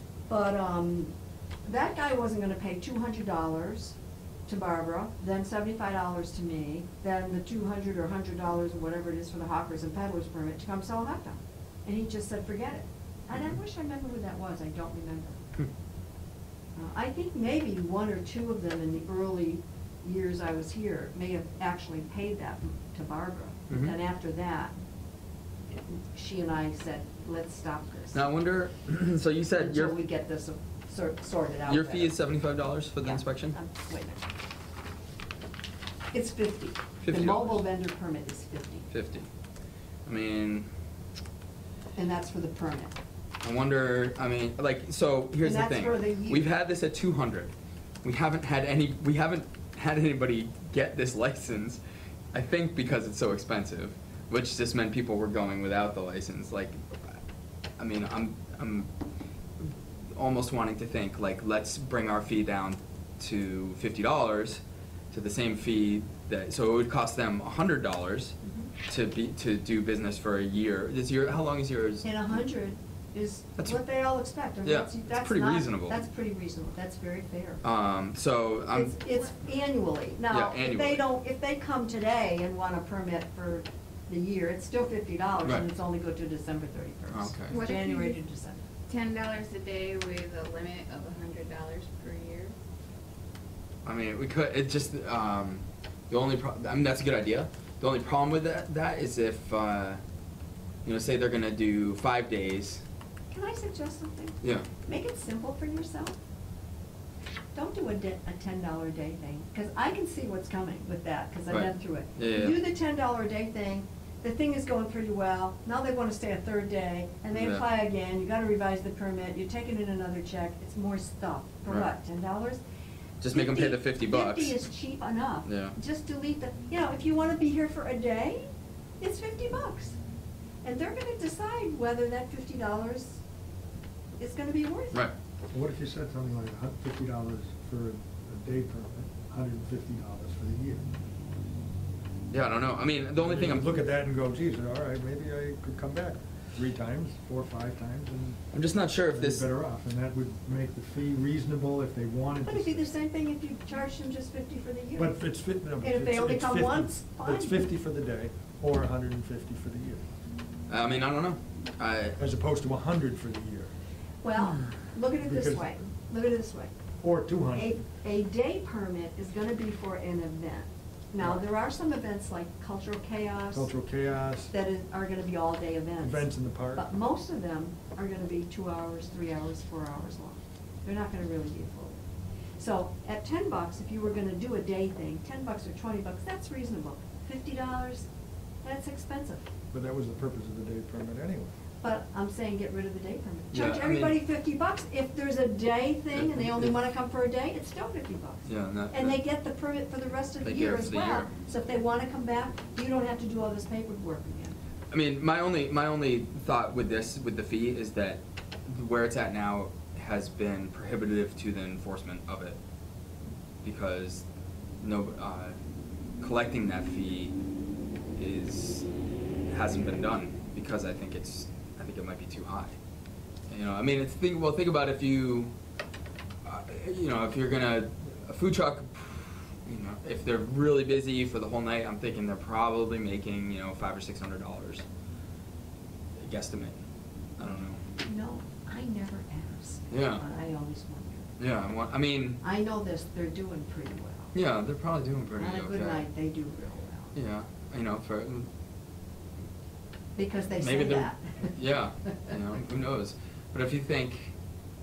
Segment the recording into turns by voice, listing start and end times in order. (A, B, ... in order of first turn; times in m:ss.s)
0:00.3-0:01.1 A
0:01.6-0:04.0 A
0:04.5-0:15.4 A
0:16.8-0:24.7 A
0:25.7-0:28.2 A
0:28.1-0:30.0 B
0:29.6-0:32.1 A
0:31.7-0:33.6 B
0:33.0-0:34.2 A
0:36.1-0:38.9 A
0:37.0-0:37.6 B
0:38.9-0:39.3 B
0:40.0-0:40.7 B
0:42.0-0:43.0 A
0:43.4-0:47.5 B
0:45.4-0:46.5 A
0:48.0-0:51.8 B
0:52.3-0:57.2 B
0:57.8-0:58.9 B
0:59.6-1:04.6 B
1:05.1-1:08.3 B
1:08.4-1:08.7 A
1:08.9-1:12.0 B
1:12.0-1:17.6 A
1:14.6-1:15.9 B
1:17.6-1:18.9 B
1:18.7-1:28.6 A
1:20.3-1:21.0 B
1:27.1-1:27.6 B
1:27.5-1:28.1 C
1:28.9-1:32.5 C
1:33.8-1:40.0 B
1:40.8-1:42.8 B
1:43.3-1:46.2 A
1:44.4-1:44.7 B
1:47.5-2:02.6 A
1:51.5-1:52.6 B
1:57.3-1:57.6 B
2:03.2-2:04.6 B
2:03.3-2:08.5 A
2:05.4-2:05.7 B
2:09.0-2:10.0 A
2:10.6-2:13.2 A
2:14.2-2:15.1 A
2:15.5-2:20.9 D
2:22.3-2:23.8 B
2:23.2-2:28.4 D
2:28.5-2:29.4 B
2:29.1-2:32.8 D
2:32.4-2:35.1 A
2:35.0-2:40.0 D
2:35.8-2:37.6 A
2:40.7-2:42.2 B
2:42.2-2:43.7 D
2:44.2-2:46.7 A
2:45.2-2:45.6 D
2:47.0-2:47.7 D
2:47.5-2:53.7 A
2:53.5-2:54.5 D
2:54.5-3:02.0 A
2:56.0-2:56.8 D
3:02.6-3:08.0 A
3:08.6-3:09.4 A
3:09.7-3:11.5 D
3:11.8-3:24.6 A
3:13.5-3:14.2 B
3:16.1-3:16.7 B
3:18.4-3:19.2 B
3:20.4-3:21.3 B
3:24.9-3:32.6 B
3:33.6-3:34.2 B
3:34.8-3:35.6 B
3:36.2-3:37.3 B
3:38.2-3:38.8 B
3:39.5-3:42.7 B
3:43.5-3:45.5 B
3:46.4-3:54.8 B
3:56.2-3:56.8 B
3:57.4-3:57.8 B
3:58.0-4:01.3 A
3:59.9-4:00.2 B
4:01.4-4:02.4 B
4:02.4-4:04.3 A
4:04.3-4:06.0 B
4:05.3-4:07.1 A
4:07.1-4:08.5 B
4:10.2-4:11.5 A
4:10.6-4:14.3 B